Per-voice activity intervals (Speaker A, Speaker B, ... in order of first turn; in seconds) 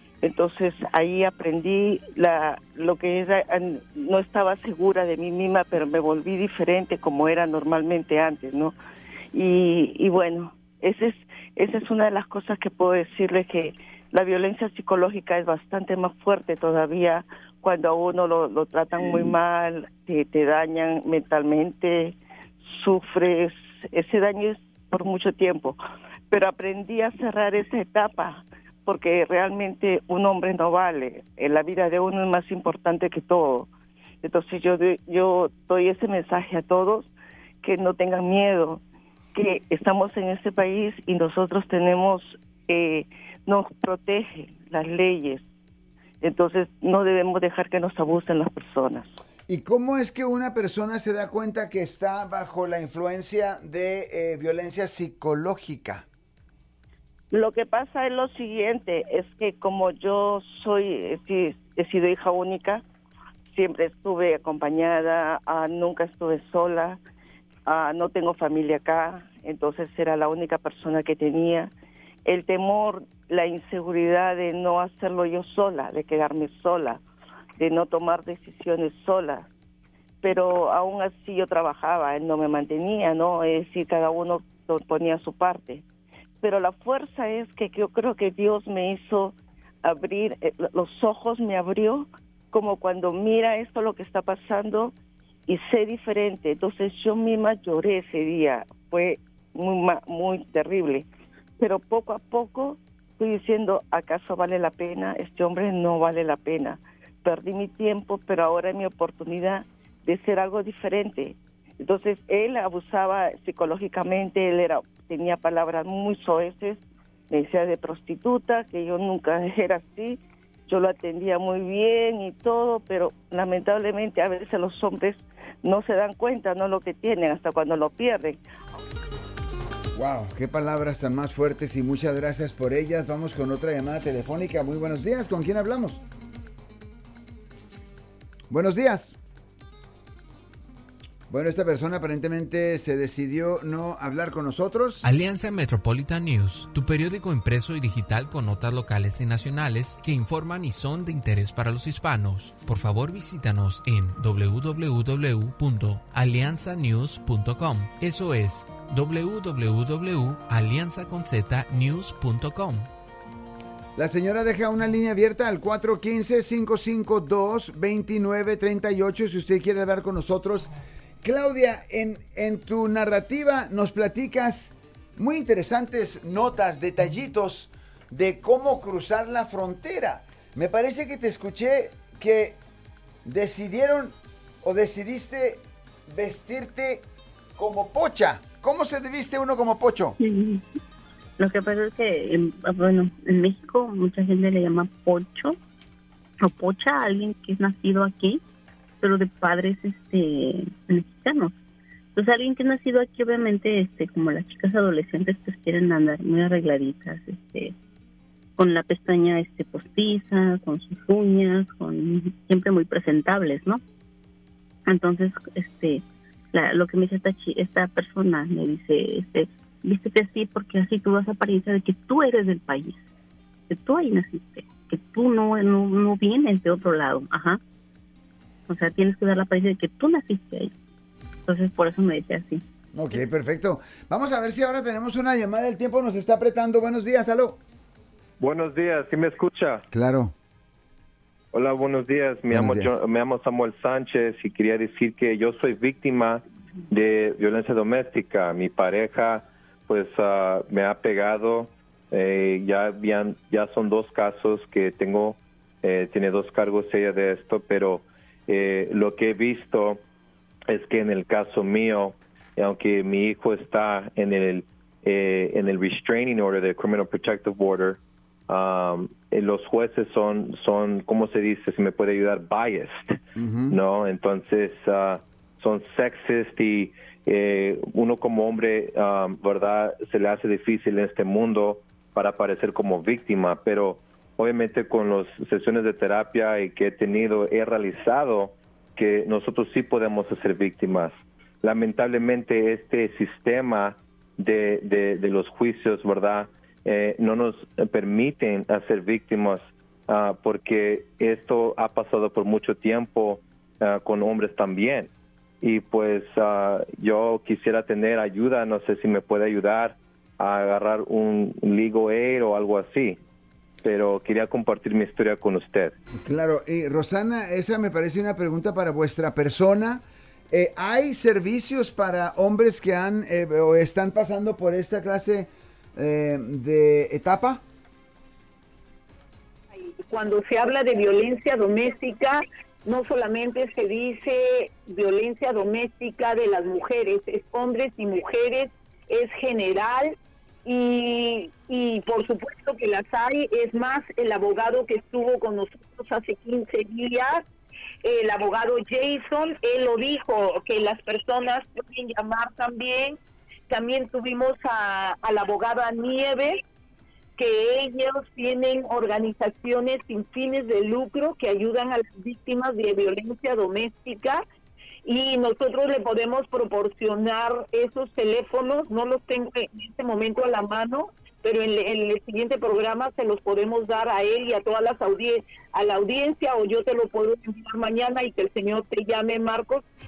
Speaker A: 0.2-8.7, 9.3-25.8, 26.3-33.7, 34.2-37.1, 37.6-38.8, 39.4-45.4, 46.2-49.2, 57.3-62.8, 63.5-67.0, 67.7-71.7, 72.2-77.0, 77.6-79.5, 80.2-85.8, 86.4-94.9, 95.5-101.1, 101.6-128.4
Speaker B: 49.5-56.0, 129.9-136.0, 138.5-139.2, 141.3-145.1, 163.9-170.7, 171.2-182.6, 183.2-187.0, 187.6-190.2, 232.9-237.6, 239.9-240.3, 242.5-242.9, 273.4-273.8, 316.2-327.6
Speaker C: 145.0-162.9
Speaker D: 190.2-190.6, 191.4-195.6, 196.4-198.4, 199.0-201.5, 202.1-207.7, 208.6-213.8, 214.9-223.0, 223.7-227.6, 228.7-230.7, 231.5-232.6
Speaker E: 238.4-239.8, 241.5-260.0, 260.7-305.1, 305.6-313.2, 313.8-315.9
Speaker F: 329.7-347.4, 348.0-353.2, 353.7-356.6, 357.4-364.4, 365.0-379.8